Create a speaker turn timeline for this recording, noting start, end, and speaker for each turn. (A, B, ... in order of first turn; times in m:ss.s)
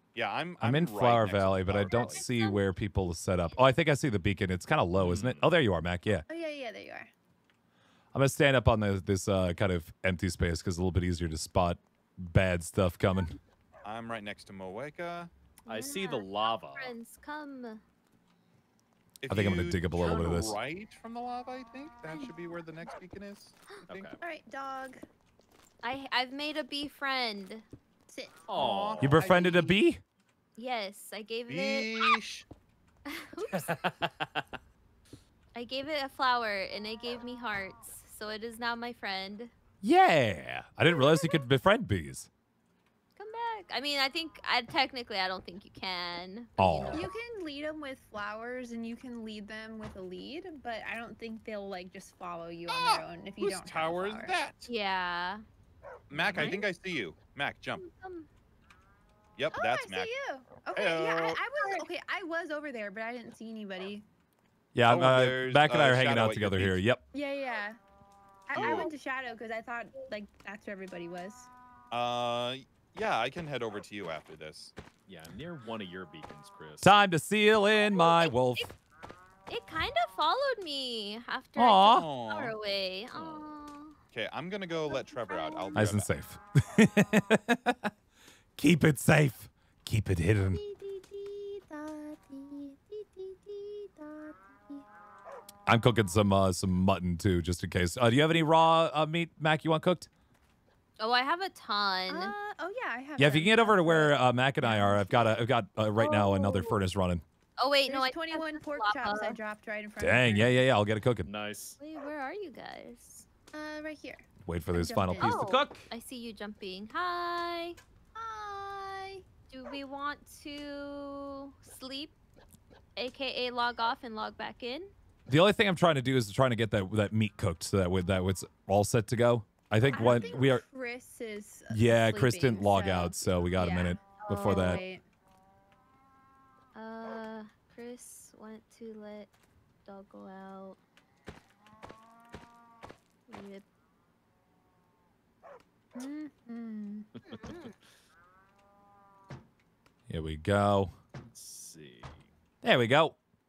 0:00.1-0:02.2 A
0:00.6-0:06.2 B
0:01.9-0:02.7 C
0:03.5-0:03.7 C
0:05.0-0:05.5 D
0:06.3-0:07.1 E
0:08.1-0:13.4 B
0:13.8-0:15.3 A
0:15.6-0:17.8 C
0:15.7-0:16.9 D
0:19.2-0:24.2 A
0:19.3-0:20.6 B
0:23.9-0:24.2 D
0:24.2-0:25.0 E
0:25.8-0:27.6 C
0:28.1-0:28.5 E
0:28.5-0:29.2 D
0:28.5-0:29.8 A
0:29.0-0:30.0 B
0:30.6-0:32.2 C
0:31.5-0:32.4 A
0:33.0-0:33.8 C
0:33.5-0:34.4 D
0:35.6-0:39.5 C
0:39.8-0:42.3 B
0:40.9-0:41.4 C
0:43.2-0:47.1 C
0:46.6-0:47.1 B
0:46.9-0:54.4 E
0:52.7-0:54.7 A
0:54.7-0:55.4 C
0:56.1-0:57.8 A
0:56.2-0:56.5 B
0:56.3-0:56.7 C
0:57.8-0:58.3 C
0:59.4-1:00.1 A
0:59.5-1:04.0 E
1:00.7-1:01.4 A
1:01.5-1:01.9 C
1:04.8-1:07.0 B
1:04.9-1:06.8 A
1:07.1-1:07.8 E
1:08.5-1:11.5 E
1:08.5-1:08.9 C
1:08.5-1:08.9 A
1:11.9-1:14.7 A
1:15.1-1:16.9 D
1:16.8-1:18.7 B
1:17.8-1:18.7 C
1:19.5-1:24.0 C
1:21.6-1:22.1 B
1:21.9-1:22.5 A
1:23.1-1:23.5 D
1:24.1-1:26.1 A
1:24.9-1:25.8 E
1:25.7-1:27.9 B
1:28.6-1:30.6 B
1:30.4-1:34.8 E
1:35.7-1:40.1 B
1:41.0-1:42.3 C
1:42.1-1:45.4 E
1:43.2-1:47.2 B
1:46.0-1:46.7 E
1:47.6-1:49.4 C
1:47.9-1:50.6 E
1:50.0-1:51.3 B
1:51.2-1:51.8 D
1:51.8-1:53.2 C
1:53.5-1:55.6 E
1:54.4-1:55.9 B
1:55.2-1:57.8 C
1:58.2-1:59.2 E
1:59.5-2:02.1 C
2:03.0-2:04.9 C
2:05.3-2:10.6 B
2:09.8-2:15.0 E
2:09.9-2:10.3 C
2:11.7-2:14.8 B
2:14.2-2:14.8 C
2:16.7-2:19.3 C
2:19.8-2:20.8 C
2:23.3-2:23.6 C
2:25.9-2:27.1 E
2:27.3-2:27.7 C
2:30.1-2:30.9 B
2:31.2-2:32.2 D
2:32.6-2:33.2 B